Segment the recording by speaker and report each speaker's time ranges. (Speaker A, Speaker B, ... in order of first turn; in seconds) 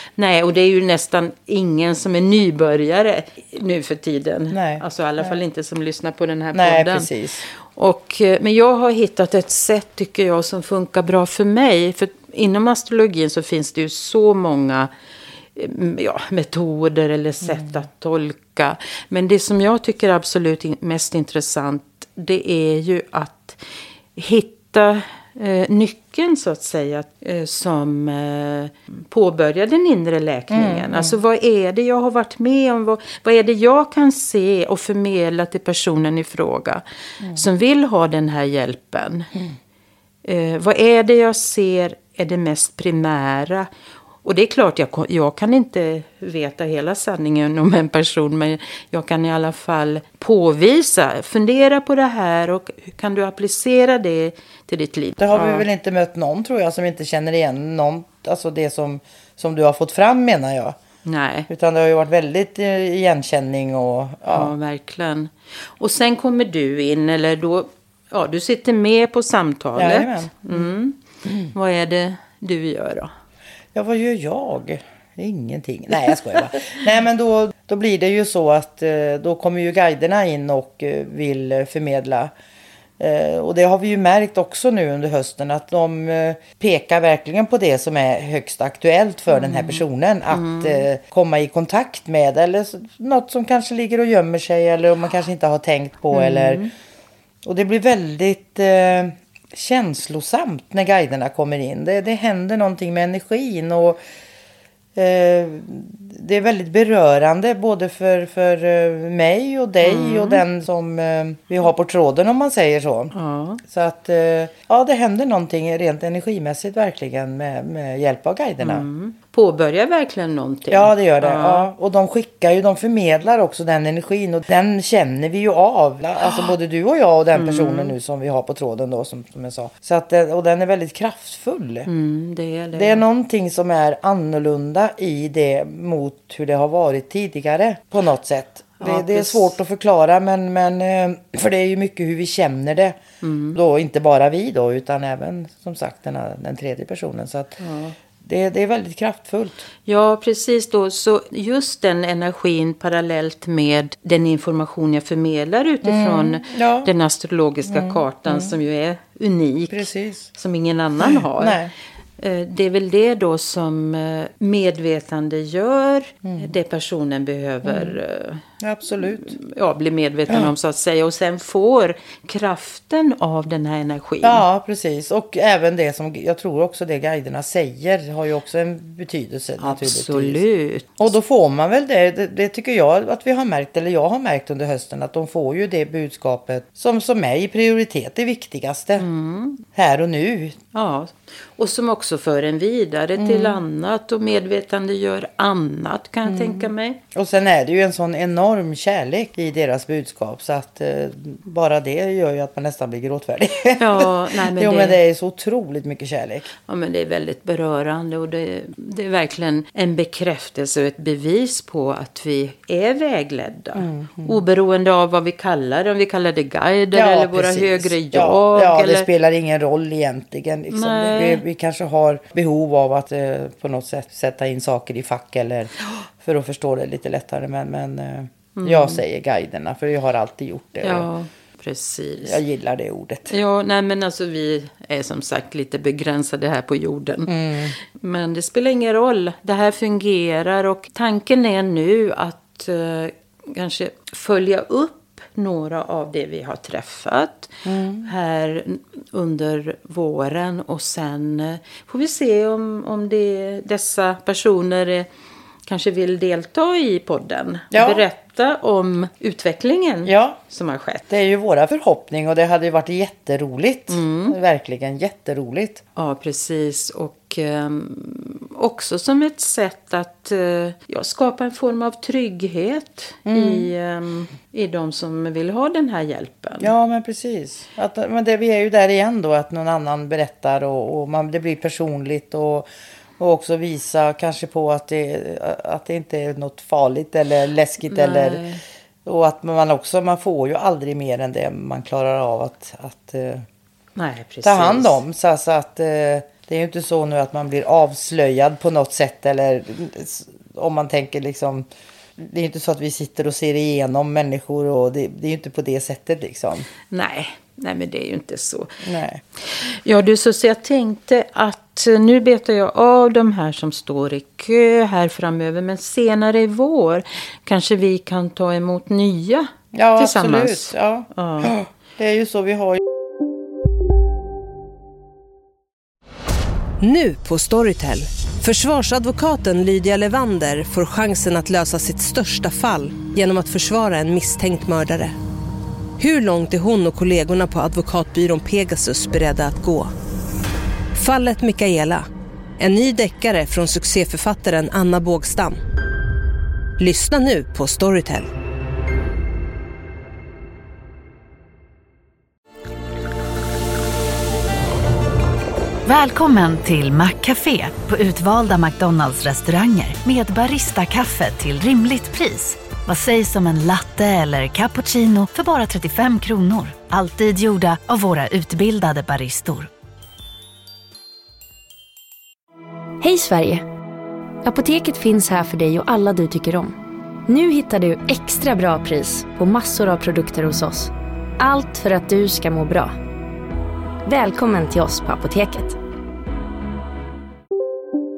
Speaker A: 0.2-14.9, 15.6-23.6, 24.1-39.3, 40.2-43.7, 44.2-55.7, 61.0-61.5, 64.3-73.1, 89.3-90.9, 96.1-96.7, 109.8-110.4, 113.1-113.6, 118.6-121.7, 127.3-128.0, 131.9-133.0, 138.8-139.5, 143.2-143.6, 147.6-147.9, 149.9-161.6, 162.2-174.4, 179.6-181.0, 189.0-189.6, 190.7-197.0, 203.8-205.0, 206.7-219.1, 220.7-221.4, 228.6-229.0, 230.8-232.4, 233.3-247.5, 248.0-255.1, 255.7-261.1, 263.9-264.4, 266.0-276.7, 287.9-288.6, 294.0-295.0, 306.9-308.8, 309.4-321.6
Speaker B: 4.5-5.4, 6.5-7.5, 17.4-17.8, 30.5-31.2, 55.2-60.8, 61.5-64.5, 69.8-70.7, 73.7-82.3, 83.0-96.7, 97.4-104.0, 105.0-113.1, 113.6-118.8, 120.7-131.9, 132.7-143.0, 143.5-147.6, 148.2-149.7, 155.8-156.9, 157.7-158.6, 159.7-160.3, 161.0-161.7, 166.2-166.5, 167.7-168.0, 168.6-169.4, 174.2-180.4, 181.0-189.1, 189.7-190.6, 193.2-193.6, 196.2-206.5, 213.8-214.4, 216.9-231.1, 232.2-233.3, 237.3-237.8, 247.7-248.1, 257.7-258.1, 260.1-260.4, 261.1-265.8, 273.3-273.7, 276.6-282.7, 283.2-288.4, 289.1-293.4, 294.4-301.7, 302.2-306.7, 308.8-309.2, 319.7-322.8
Speaker C: 326.8-335.1, 336.0-339.9, 340.9-342.1, 342.6-345.6, 346.8-348.3
Speaker D: 355.9-369.7
Speaker E: 373.0-373.6, 374.4-376.8, 377.3-382.9, 384.1-385.8